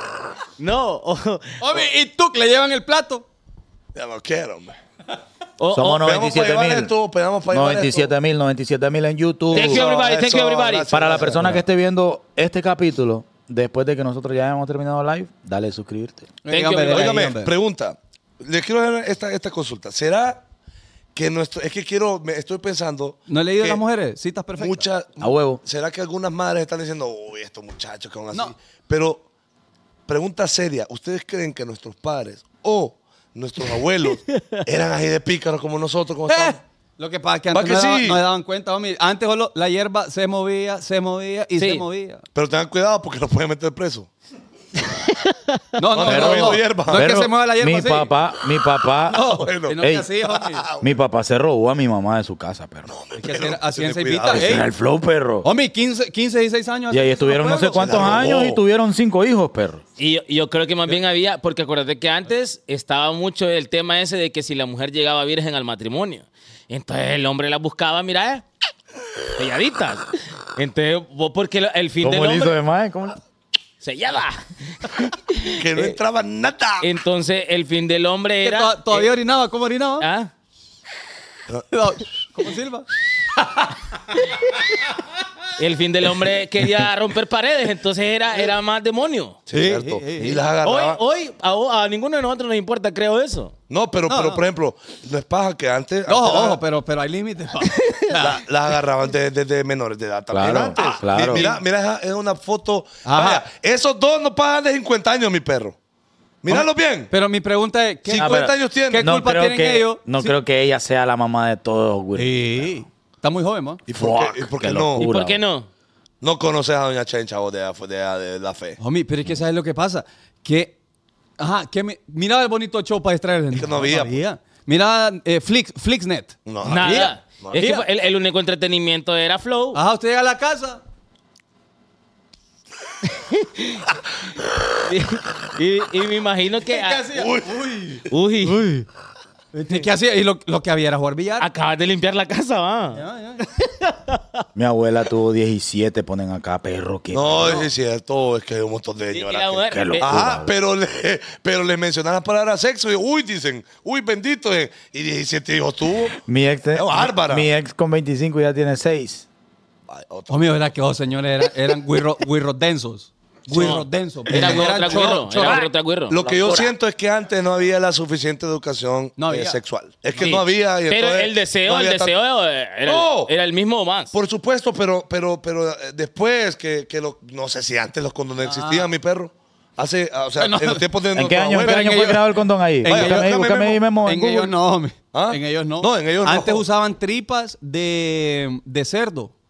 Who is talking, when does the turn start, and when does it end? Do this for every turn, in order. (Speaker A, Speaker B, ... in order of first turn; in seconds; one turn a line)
Speaker A: 0.6-1.6
Speaker B: 1.6-3.2
Speaker C: 3.9-4.8
Speaker A: 5.6-6.0
Speaker D: 5.7-6.9
Speaker C: 6.0-8.1
Speaker D: 7.5-9.8
Speaker C: 9.5-11.6
Speaker A: 9.5-11.1
Speaker D: 10.9-16.3
Speaker B: 16.4-17.5
Speaker A: 16.5-17.2
Speaker C: 16.9-20.4
Speaker C: 21.1-23.8
Speaker B: 23.3-24.9
Speaker C: 24.6-29.2
Speaker D: 25.2-25.6
Speaker C: 30.1-36.5
Speaker A: 34.3-34.6
Speaker B: 36.3-42.2
Speaker C: 37.5-38.2
Speaker A: 41.6-41.8
Speaker C: 42.3-44.1
Speaker B: 45.8-48.1
Speaker C: 45.9-47.1
Speaker D: 46.0-50.1
Speaker B: 49.1-50.6
Speaker C: 49.2-50.9
Speaker D: 50.8-52.9
Speaker C: 52.9-54.6
Speaker B: 53.2-54.7
Speaker D: 54.3-55.5
Speaker B: 55.4-58.2
Speaker D: 56.9-59.8
Speaker C: 57.4-58.6
Speaker A: 60.0-68.4
Speaker A: 69.3-72.5
Speaker D: 72.0-73.2
Speaker A: 73.8-76.0
Speaker C: 75.6-76.9
Speaker A: 76.8-79.1
Speaker B: 78.4-80.0
Speaker A: 80.0-80.3
Speaker B: 81.7-82.9
Speaker A: 84.3-84.5
Speaker A: 85.5-89.4
Speaker C: 89.5-91.0
Speaker B: 89.5-90.4
Speaker A: 90.6-93.5
Speaker C: 93.7-96.6
Speaker B: 94.1-94.4
Speaker B: 96.1-98.4
Speaker C: 98.1-105.8
Speaker D: 100.3-101.5
Speaker B: 100.8-101.6
Speaker B: 103.0-103.4
Speaker C: 106.4-107.1
Speaker B: 106.5-110.3
Speaker C: 108.1-109.1
Speaker D: 108.2-112.7
Speaker B: 112.2-113.8
Speaker C: 113.9-115.0
Speaker D: 113.9-115.4
Speaker A: 115.0-115.7
Speaker C: 116.2-118.8
Speaker B: 118.8-120.7
Speaker B: 121.4-127.8
Speaker C: 123.5-124.2
Speaker C: 126.5-127.6
Speaker A: 126.6-129.8
Speaker B: 129.7-130.8
Speaker A: 133.1-133.8
Speaker A: 134.8-137.1
Speaker B: 136.7-138.9
Speaker C: 137.1-137.5
Speaker A: 138.1-138.6
Speaker B: 139.5-141.5
Speaker A: 141.4-144.4
Speaker B: 142.9-143.4
Speaker D: 144.5-147.6
Speaker C: 147.1-156.2
Speaker A: 149.1-150.2
Speaker D: 149.7-150.5
Speaker D: 156.2-159.2
Speaker C: 156.7-157.5
Speaker C: 159.9-160.5
Speaker B: 160.3-165.6
Speaker A: 163.5-166.7
Speaker C: 163.5-172.1
Speaker B: 169.2-169.6
Speaker A: 170.2-174.1
Speaker C: 172.8-173.3
Speaker C: 174.1-182.2
Speaker B: 178.4-178.9
Speaker B: 180.4-180.8
Speaker D: 181.1-184.5
Speaker B: 181.6-182.2
Speaker B: 182.8-183.4
Speaker C: 182.8-183.8
Speaker B: 184.0-189.3
Speaker C: 185.1-186.7